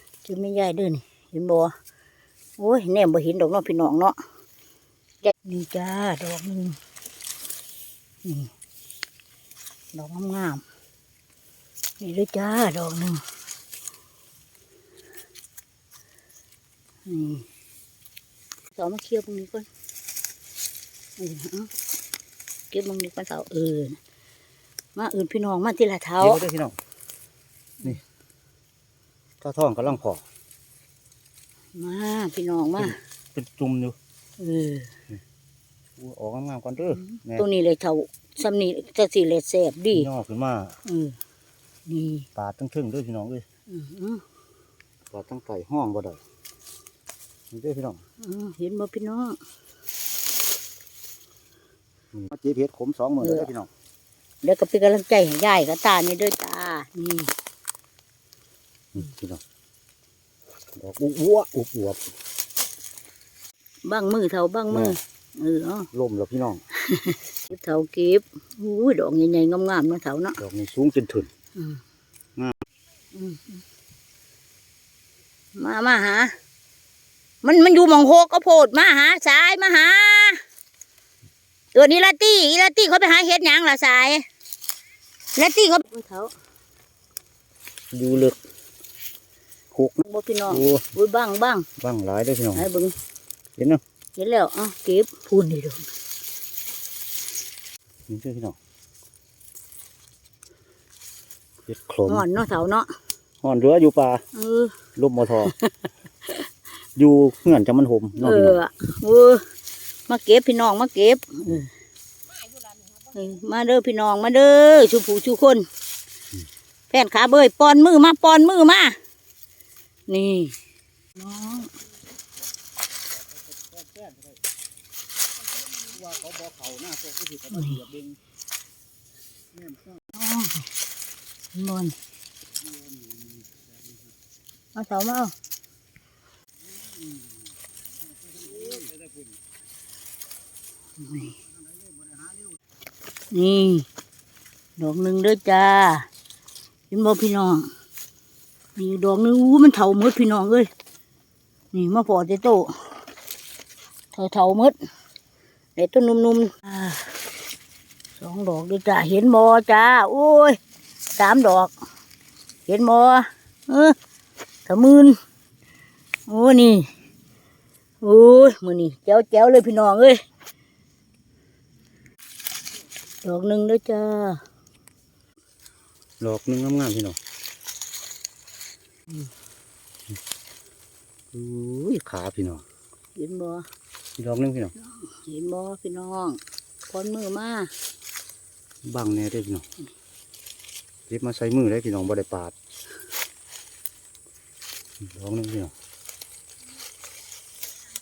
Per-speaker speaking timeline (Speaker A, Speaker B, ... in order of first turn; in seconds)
Speaker A: 0.2-1.7, 2.6-4.2, 5.2-6.8, 8.2-8.5, 9.9-10.6, 12.0-13.2, 17.1-17.4, 18.8-19.7, 21.2-21.7, 22.7-24.0, 24.9-26.4, 31.8-33.0, 34.4-34.9, 37.0-40.1, 40.9-41.2, 41.9-42.3, 43.7-44.2, 48.2-49.4, 53.2-53.5, 54.4-57.3, 63.9-65.9, 66.8-70.4, 73.1-73.4, 75.6-76.3, 77.4-80.4, 81.7-84.2, 85.4-86.3, 90.0-91.7, 92.5-92.9, 94.2-95.9, 102.1-102.9, 104.3-104.8, 108.2-109.4, 110.1-111.7, 113.1-115.7, 116.9-119.0, 120.1-120.6, 121.2-121.7, 127.5-127.8, 130.1-130.7, 131.5-132.0, 134.8-135.3, 141.0-141.3, 143.3-143.9, 144.8-146.1, 146.9-147.7, 148.8-150.7, 151.7-152.9, 154.1-154.8, 155.8-157.1, 158.2-160.6, 161.2-161.7, 162.7-164.0, 164.7-165.2, 166.3-166.9, 168.0-170.2, 173.2-174.4, 183.2-183.6, 185.0-187.7
Speaker B: 26.2-26.8, 29.4-30.2, 32.8-34.0, 36.0-37.5, 39.9-40.8, 42.4-43.5, 45.1-46.2, 47.5-48.0, 52.1-53.7, 58.9-59.4, 60.8-62.0, 64.7-65.0, 65.9-66.6, 70.4-71.3, 87.9-88.4, 89.7-90.9, 91.8-92.7, 98.1-98.6, 101.7-102.2, 103.4-104.2, 105.0-105.5, 107.0-108.6, 123.7-124.3, 125.8-128.2, 129.6-130.0, 138.5-138.9, 176.2-177.2, 181.3-182.6, 184.2-184.8, 188.8-189.6, 191.1-192.5, 195.0-195.7